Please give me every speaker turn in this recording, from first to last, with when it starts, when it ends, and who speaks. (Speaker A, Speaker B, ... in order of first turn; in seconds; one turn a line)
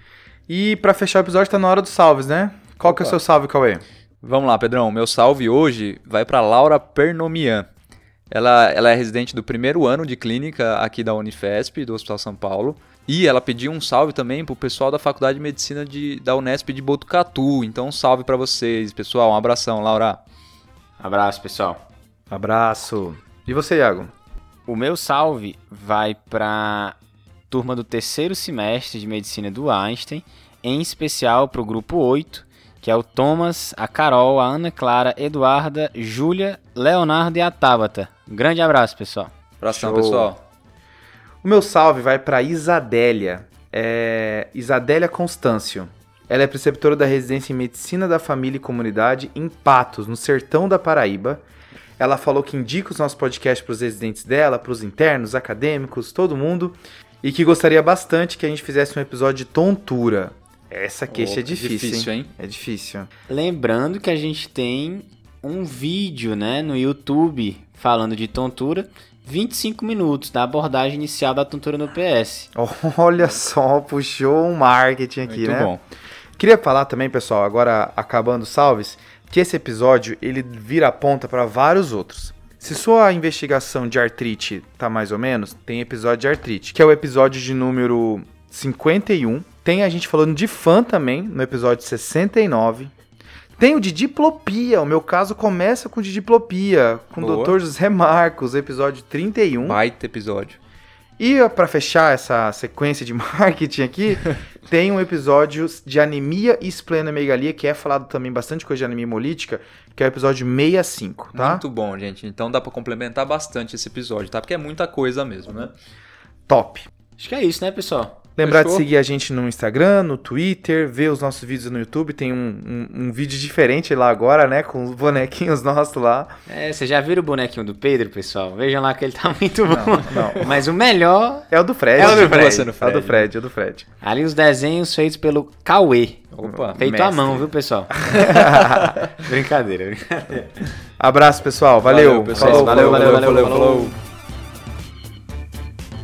Speaker A: 0.5-3.8
Speaker B: 2.9-3.2
Speaker B: 4.2-7.7
Speaker B: 8.3-20.2
Speaker C: 21.0-21.8
Speaker A: 22.3-24.1
Speaker C: 24.7-27.0
Speaker C: 27.5-39.3
Speaker B: 39.6-40.4
Speaker A: 39.7-40.3
Speaker A: 41.4-51.4
Speaker A: 52.0-63.1
Speaker B: 61.1-62.3
Speaker C: 63.3-72.5
Speaker A: 72.5-75.7
Speaker B: 75.3-75.8
Speaker A: 76.4-92.9
Speaker A: 93.6-99.8
Speaker B: 97.2-97.6
Speaker B: 99.6-100.6
Speaker A: 101.2-111.6
Speaker B: 111.3-115.7
Speaker A: 116.5-116.9
Speaker C: 117.2-118.2
Speaker A: 118.4-126.3
Speaker B: 118.4-118.8
Speaker C: 126.5-132.7
Speaker A: 129.7-130.5
Speaker B: 130.1-130.5
Speaker A: 131.5-133.9
Speaker B: 132.0-133.3
Speaker C: 134.0-140.7
Speaker B: 136.3-137.4
Speaker A: 136.4-137.0
Speaker A: 138.0-139.0
Speaker A: 141.0-143.6
Speaker B: 141.8-143.9
Speaker C: 142.3-143.9